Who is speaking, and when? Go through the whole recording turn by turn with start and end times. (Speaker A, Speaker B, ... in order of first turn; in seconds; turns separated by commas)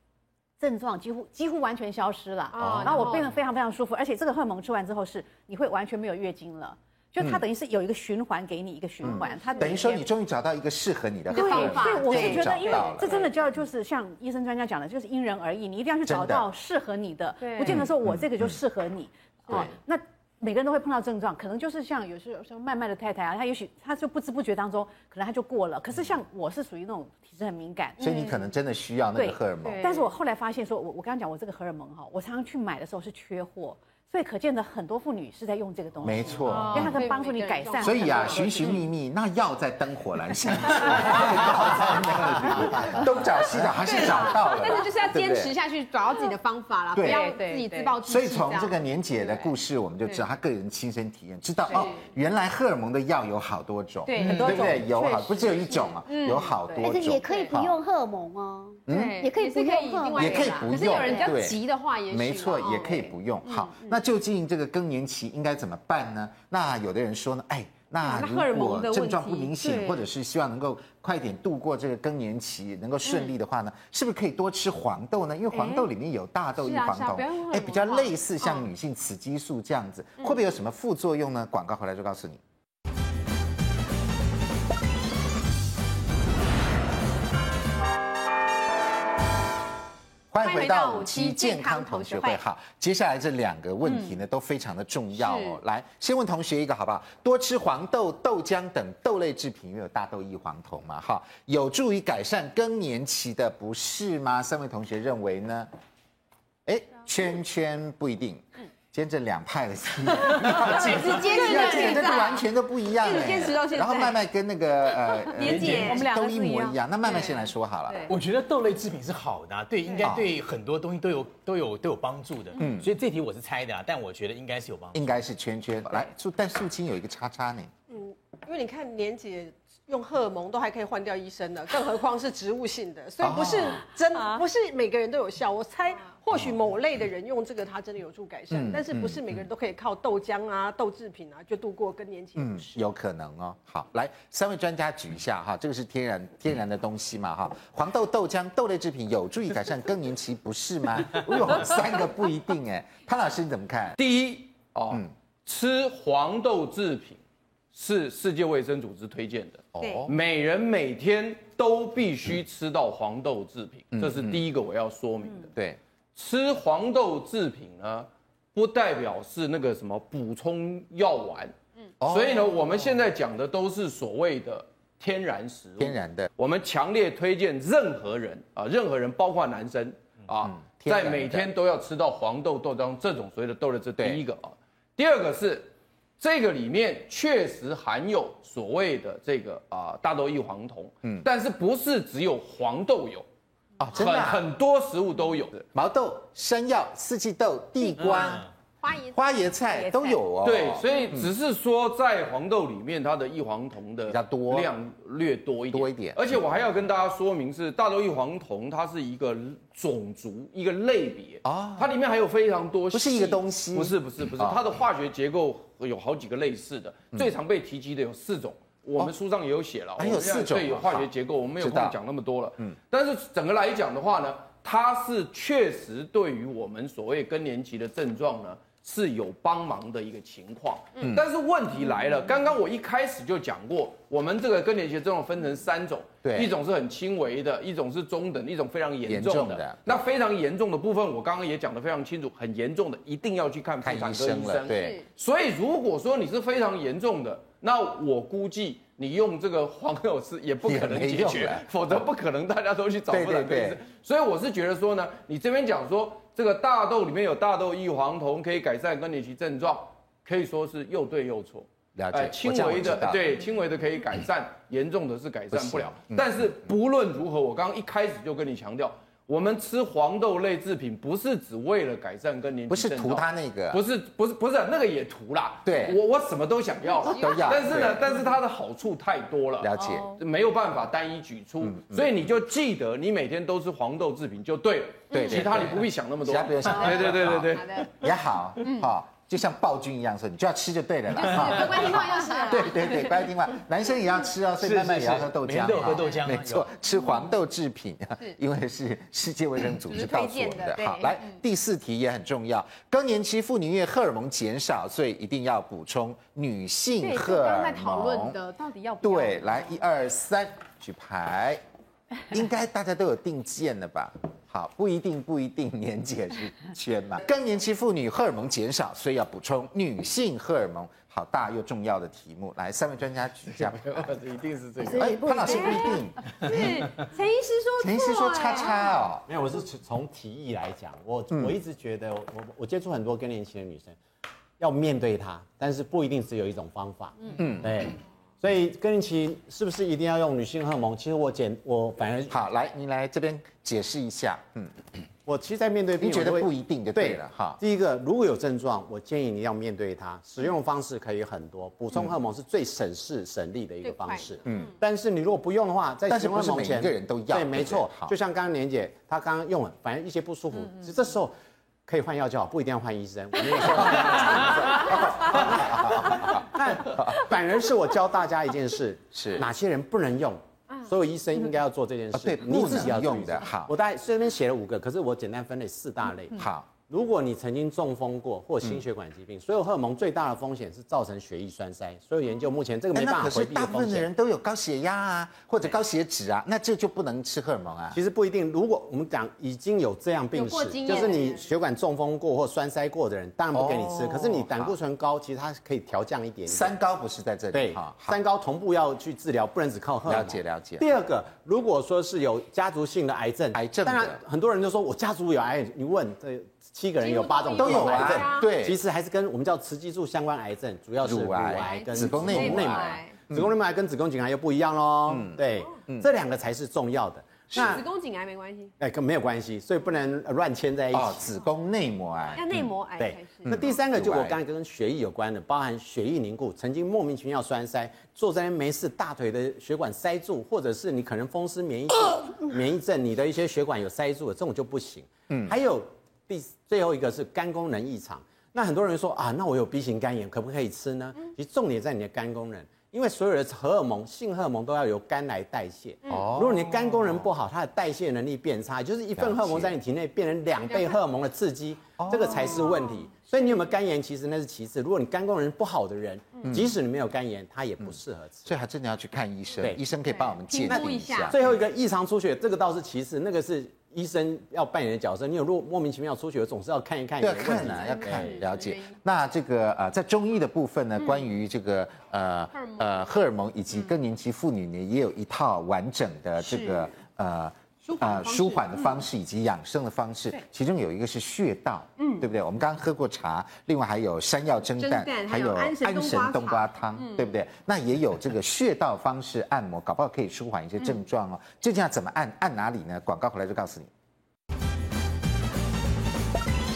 Speaker A: 0.6-10.1, Speaker B: 2.5-3.3, Speaker C: 2.6-3.1, Speaker D: 2.7-3.2, Speaker C: 9.0-13.2, Speaker B: 11.3-13.2, Speaker A: 11.3-28.2, Speaker C: 16.1-16.5, Speaker B: 17.4-17.7, Speaker C: 17.6-18.5, Speaker C: 28.0-29.8, Speaker B: 28.1-28.4, Speaker A: 29.1-38.8, Speaker B: 29.6-30.0, Speaker C: 36.0-37.0, Speaker B: 36.5-38.8, Speaker C: 37.8-45.5, Speaker D: 37.9-38.2, Speaker B: 43.7-49.5, Speaker C: 46.9-47.2, Speaker A: 47.0-47.9, Speaker C: 48.0-57.8, Speaker B: 51.7-52.0, Speaker B: 54.1-54.7, Speaker A: 54.1-55.9, Speaker B: 56.0-56.5, Speaker A: 56.5-56.9, Speaker E: 56.8-61.4, Speaker B: 57.2-57.5, Speaker C: 58.9-59.2, Speaker B: 58.9-64.0, Speaker C: 60.1-82.4, Speaker B: 68.0-70.0, Speaker B: 75.5-75.9, Speaker B: 76.5-78.7, Speaker C: 90.3-105.7, Speaker B: 90.4-92.4, Speaker B: 93.8-94.2, Speaker B: 95.1-95.6, Speaker C: 106.7-118.1, Speaker B: 110.6-114.2, Speaker B: 114.9-118.2, Speaker F: 115.4-116.1, Speaker F: 118.1-125.1, Speaker C: 120.0-120.3, Speaker C: 122.5-122.9, Speaker C: 124.9-127.7, Speaker D: 127.9-142.7, Speaker C: 133.2-133.8, Speaker C: 138.5-139.4, Speaker C: 142.3-154.0, Speaker G: 154.0-157.2, Speaker G: 157.7-165.5, Speaker C: 159.8-160.1, Speaker B: 159.8-160.1, Speaker C: 163.9-164.4, Speaker G: 166.1-171.5, Speaker C: 172.0-172.6, Speaker G: 172.0-193.2, Speaker C: 175.8-176.3, Speaker C: 180.4-181.5, Speaker C: 193.8-194.4, Speaker G: 193.9-195.6, Speaker C: 195.7-198.5, Speaker F: 198.0-198.5, Speaker B: 198.8-199.2, Speaker C: 199.1-201.3, Speaker A: 199.7-200.2, Speaker G: 200.4-287.9, Speaker C: 204.1-204.7, Speaker C: 205.7-206.3, Speaker C: 211.4-211.9, Speaker C: 212.9-214.6, Speaker C: 220.0-222.0, Speaker C: 231.0-231.2, Speaker C: 236.2-236.6, Speaker C: 239.0-240.0, Speaker C: 243.8-245.0, Speaker B: 244.7-245.0, Speaker C: 250.6-251.7, Speaker C: 253.1-253.8, Speaker C: 261.9-263.4, Speaker C: 265.5-266.5, Speaker C: 272.7-273.8, Speaker C: 275.6-276.0, Speaker B: 276.9-277.8, Speaker C: 277.0-278.1, Speaker C: 279.6-280.2, Speaker A: 279.8-280.0, Speaker C: 281.6-282.2, Speaker C: 285.1-308.4, Speaker B: 287.0-287.9, Speaker B: 288.6-288.9, Speaker B: 291.1-293.3, Speaker F: 294.6-296.7, Speaker B: 299.8-301.4, Speaker B: 307.0-309.8, Speaker C: 309.0-311.6, Speaker C: 312.3-324.2, Speaker F: 323.6-325.0, Speaker E: 324.8-326.0, Speaker C: 324.8-326.9, Speaker B: 325.4-329.0, Speaker C: 327.8-329.3, Speaker H: 329.2-334.0, Speaker C: 331.3-331.6, Speaker H: 334.6-342.4, Speaker C: 337.4-337.9, Speaker C: 342.3-344.7, Speaker H: 345.2-361.4, Speaker C: 346.0-347.6, Speaker B: 353.8-354.7, Speaker C: 354.4-354.7, Speaker C: 356.1-358.1, Speaker H: 361.9-384.1, Speaker C: 363.6-367.2, Speaker C: 369.1-369.5, Speaker C: 372.1-373.7, Speaker C: 376.3-376.7, Speaker C: 382.9-388.0, Speaker H: 387.9-396.7, Speaker B: 390.3-391.5, Speaker C: 393.5-394.8, Speaker C: 396.4-398.2, Speaker H: 397.5-417.9, Speaker C: 400.1-400.8, Speaker C: 403.5-404.2, Speaker B: 407.0-408.6, Speaker C: 407.5-408.8, Speaker C: 411.0-413.5, Speaker B: 411.6-413.2, Speaker C: 415.1-416.1, Speaker C: 417.5-417.8, Speaker B: 417.5-418.7, Speaker H: 418.8-421.3, Speaker C: 420.9-422.7, Speaker B: 422.3-423.8, Speaker H: 423.0-458.5, Speaker C: 423.4-424.4, Speaker C: 435.3-435.6, Speaker B: 446.0-446.3, Speaker C: 446.1-447.2, Speaker C: 449.1-449.8, Speaker B: 450.6-451.0, Speaker C: 452.0-452.7, Speaker B: 456.4-456.6, Speaker C: 456.4-456.7, Speaker C: 457.8-461.6, Speaker H: 459.6-459.9, Speaker B: 460.2-461.4, Speaker H: 460.6-468.5, Speaker C: 467.2-493.9, Speaker B: 467.6-469.0, Speaker B: 472.5-473.1, Speaker B: 476.4-476.9, Speaker B: 477.8-479.0, Speaker B: 482.0-482.3, Speaker B: 484.8-487.4